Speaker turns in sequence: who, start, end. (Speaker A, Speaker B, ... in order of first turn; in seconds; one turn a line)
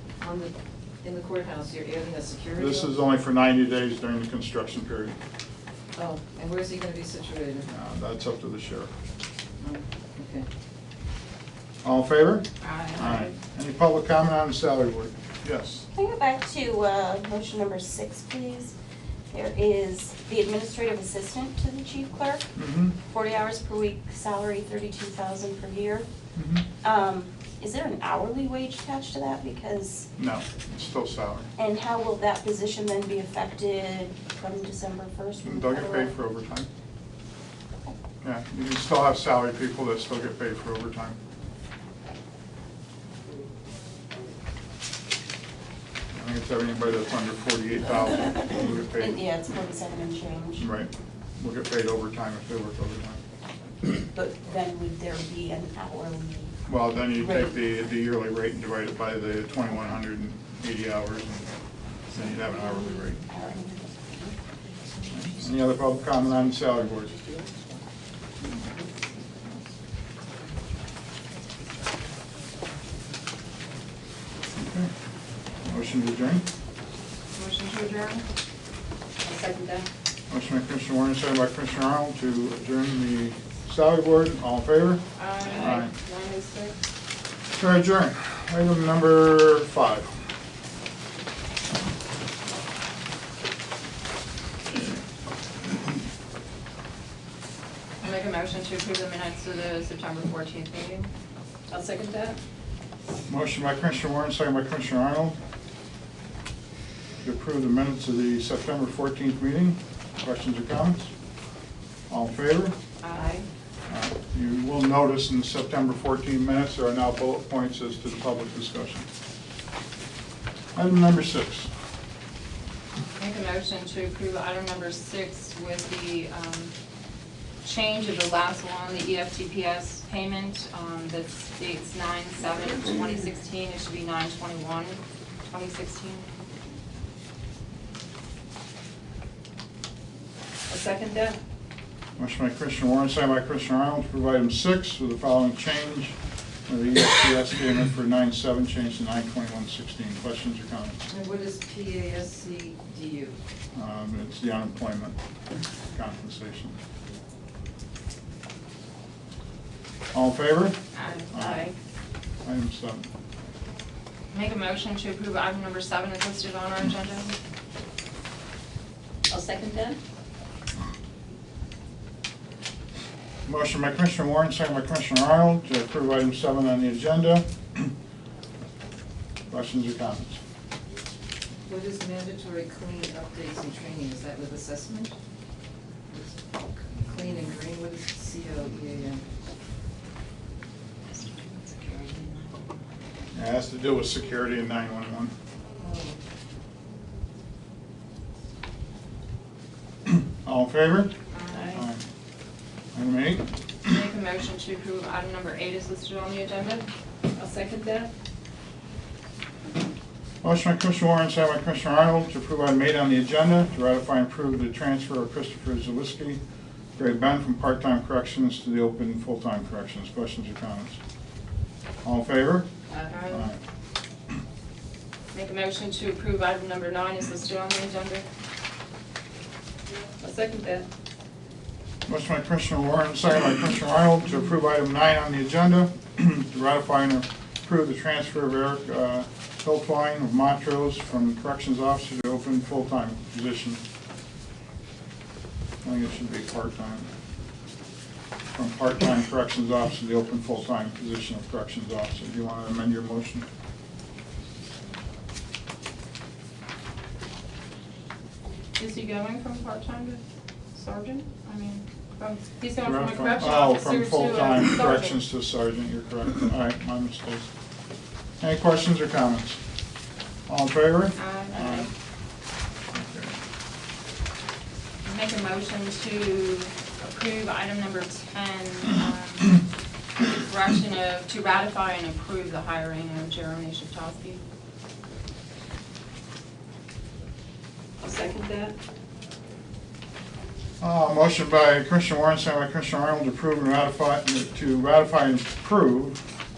Speaker A: 0.2-2.9
Speaker B: 2.6-5.2
Speaker A: 6.0-7.7
Speaker B: 7.7-8.9
Speaker A: 9.6-10.5
Speaker B: 11.8-15.9
Speaker C: 12.6-13.3
Speaker D: 15.9-18.7
Speaker D: 19.3-22.5
Speaker B: 22.6-22.9
Speaker D: 23.1-26.1
Speaker B: 26.4-26.6
Speaker D: 26.8-30.1
Speaker B: 30.2-31.5
Speaker D: 31.6-36.1
Speaker B: 35.4-36.7
Speaker B: 38.2-41.2
Speaker B: 46.1-49.2
Speaker D: 49.0-50.7
Speaker B: 50.6-53.2
Speaker D: 54.1-57.5
Speaker B: 56.7-61.5
Speaker B: 62.1-63.2
Speaker D: 62.4-65.1
Speaker B: 65.1-67.1
Speaker B: 74.5-74.9
Speaker B: 75.6-76.4
Speaker C: 77.3-78.2
Speaker A: 79.2-79.8
Speaker B: 80.3-85.0
Speaker C: 85.2-86.8
Speaker B: 85.5-85.9
Speaker B: 87.6-90.1
Speaker C: 98.0-101.1
Speaker A: 101.7-102.4
Speaker B: 103.3-105.4
Speaker B: 107.2-111.1
Speaker B: 112.1-112.7
Speaker C: 113.0-113.5
Speaker B: 113.9-119.1
Speaker B: 120.8-121.7
Speaker C: 123.2-126.7
Speaker C: 127.6-136.5
Speaker A: 140.7-141.4
Speaker B: 142.2-146.2
Speaker B: 146.7-151.0
Speaker A: 151.1-153.4
Speaker B: 153.7-155.2
Speaker B: 155.9-156.8
Speaker B: 160.1-160.8
Speaker C: 160.9-161.7
Speaker B: 161.3-161.7
Speaker B: 162.4-163.1
Speaker C: 164.3-167.3
Speaker A: 169.3-170.0
Speaker B: 173.5-177.9
Speaker B: 179.5-180.4
Speaker A: 181.7-185.2
Speaker A: 186.1-186.4
Speaker A: 187.0-189.2
Speaker C: 191.1-192.6
Speaker B: 193.3-195.3
Speaker A: 195.8-196.2
Speaker B: 200.1-201.1
Speaker C: 201.3-201.8
Speaker B: 201.7-202.0
Speaker B: 202.9-203.5
Speaker C: 203.8-206.9
Speaker A: 207.3-208.1
Speaker B: 210.4-216.4
Speaker B: 217.0-221.0
Speaker B: 222.0-222.7
Speaker A: 222.9-223.2
Speaker C: 223.1-223.5
Speaker B: 223.3-223.6
Speaker C: 225.3-228.2
Speaker A: 230.2-230.9
Speaker B: 232.1-243.8
Speaker B: 245.8-247.1
Speaker B: 248.5-253.5
Speaker C: 258.8-260.2
Speaker C: 260.7-265.2
Speaker B: 262.8-267.5
Speaker B: 268.4-269.6
Speaker B: 270.5-271.9
Speaker C: 271.1-271.9
Speaker B: 272.9-273.3
Speaker C: 275.1-279.6
Speaker C: 280.2-284.4
Speaker A: 288.0-288.8
Speaker B: 290.8-296.2